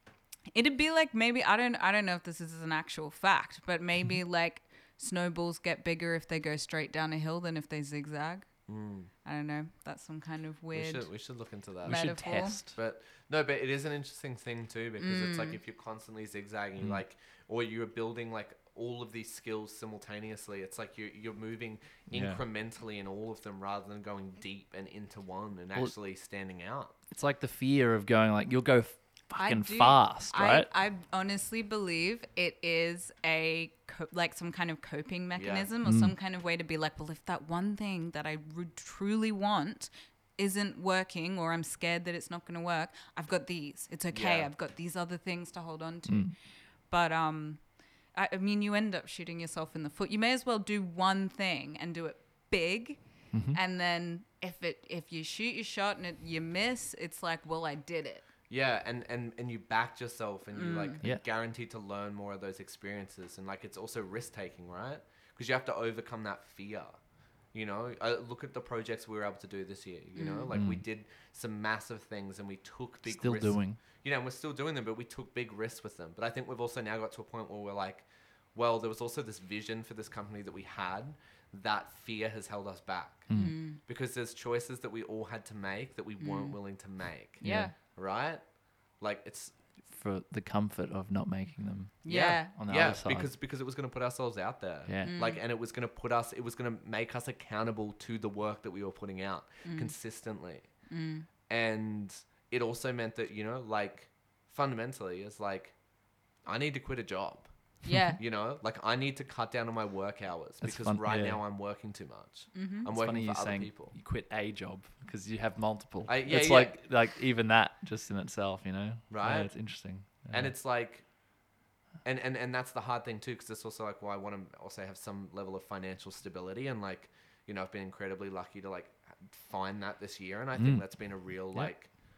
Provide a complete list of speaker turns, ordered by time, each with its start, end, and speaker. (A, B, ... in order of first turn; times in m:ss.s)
0:00.5-0:08.5 A
0:08.7-0:09.1 B
0:09.2-0:11.3 A
0:10.7-0:27.0 B
0:11.8-0:12.8 C
0:11.9-0:12.6 A
0:15.0-0:15.6 A
0:22.1-0:22.4 C
0:27.1-0:30.7 C
0:29.4-0:46.3 A
0:35.4-0:35.7 B
0:35.8-0:36.2 C
0:44.1-0:44.5 B
0:46.1-0:46.3 C
0:46.9-0:47.6 A
0:48.1-0:58.2 A
0:53.3-0:53.6 C
0:58.5-1:07.0 B
1:00.5-1:01.0 A
1:07.5-1:23.3 B
1:10.2-1:10.5 A
1:10.5-1:10.8 C
1:13.0-1:13.8 C
1:23.3-1:23.6 C
1:23.3-1:23.8 A
1:23.9-1:28.4 B
1:26.2-1:26.6 A
1:27.4-1:27.7 A
1:27.4-1:27.7 C
1:29.0-1:29.5 B
1:29.9-1:33.3 C
1:32.0-1:32.6 A
1:32.1-1:40.7 B
1:34.9-1:35.2 C
1:35.0-1:35.4 A
1:39.6-1:39.9 A
1:40.9-1:41.3 A
1:41.5-1:45.8 B
1:46.5-1:54.0 B
1:47.8-1:48.2 A
1:50.6-1:51.4 C
1:52.5-1:52.9 A
1:52.9-2:00.5 C
1:56.1-1:56.8 B
1:59.1-1:59.6 B
2:00.3-2:01.1 B
2:02.0-2:11.9 B
2:10.6-2:10.8 C